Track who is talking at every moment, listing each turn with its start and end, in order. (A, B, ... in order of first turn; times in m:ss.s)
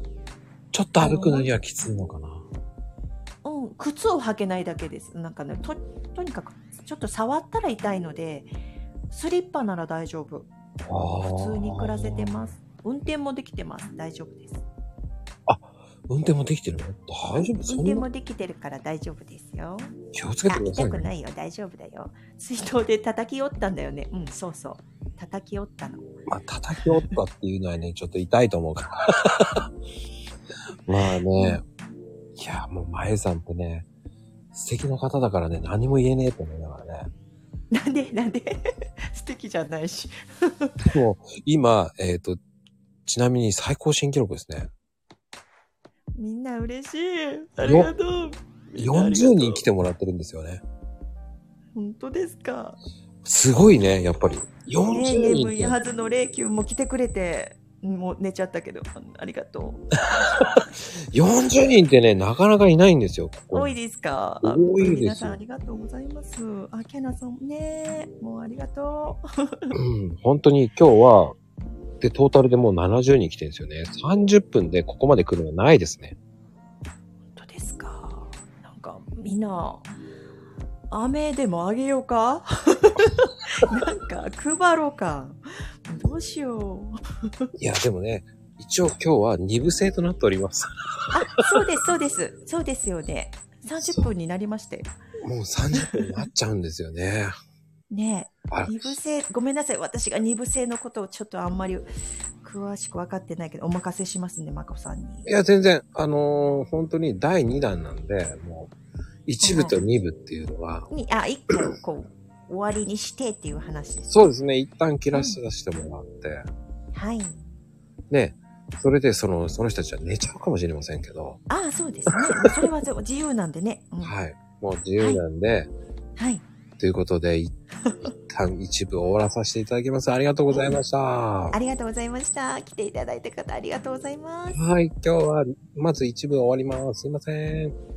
0:00.7-0:02.4 A
0:01.0-0:01.5 B
0:03.4-0:08.5 B
0:09.1-0:10.5 B
0:10.9-0:12.5 A
0:11.2-0:14.6 B
0:15.5-0:18.0 A
0:17.4-0:19.9 B
0:20.1-0:21.1 A
0:20.5-0:26.1 B
0:26.3-0:29.6 A
0:26.8-0:27.2 B
0:30.9-0:31.6 A
0:31.4-0:31.6 B
0:32.4-0:33.9 A
0:34.5-0:37.1 A
0:37.7-0:40.8 B
0:40.8-0:42.4 A
0:43.1-0:44.7 A
0:46.2-0:49.6 B
0:47.6-0:47.9 A
0:48.8-0:50.6 A
0:51.8-0:52.8 B
0:53.2-0:55.8 A
0:54.9-0:59.8 B
1:00.2-1:00.6 A
1:01.1-1:03.8 A
1:03.5-1:09.7 B
1:04.4-1:05.4 A
1:09.7-1:11.4 A
1:12.0-1:16.2 A
1:17.4-1:19.9 B
1:20.9-1:27.5 B
1:27.6-1:31.1 A
1:31.1-1:34.9 B
1:35.2-1:37.3 A
1:35.7-1:36.0 B
1:37.9-1:41.9 B
1:38.5-1:39.0 A
1:42.4-1:45.3 B
1:45.3-1:48.7 A
1:49.3-1:50.9 A
1:49.4-1:49.8 B
1:50.9-1:54.1 B
1:54.1-1:56.4 A
1:55.1-1:55.4 B
1:56.9-1:57.4 B
1:58.1-2:01.4 A
2:01.5-2:04.1 B
2:02.1-2:02.5 A
2:04.0-2:05.7 A
2:05.0-2:05.2 B
2:06.2-2:06.4 B
2:06.8-2:11.6 A
2:11.5-2:14.6 B
2:14.5-2:17.8 A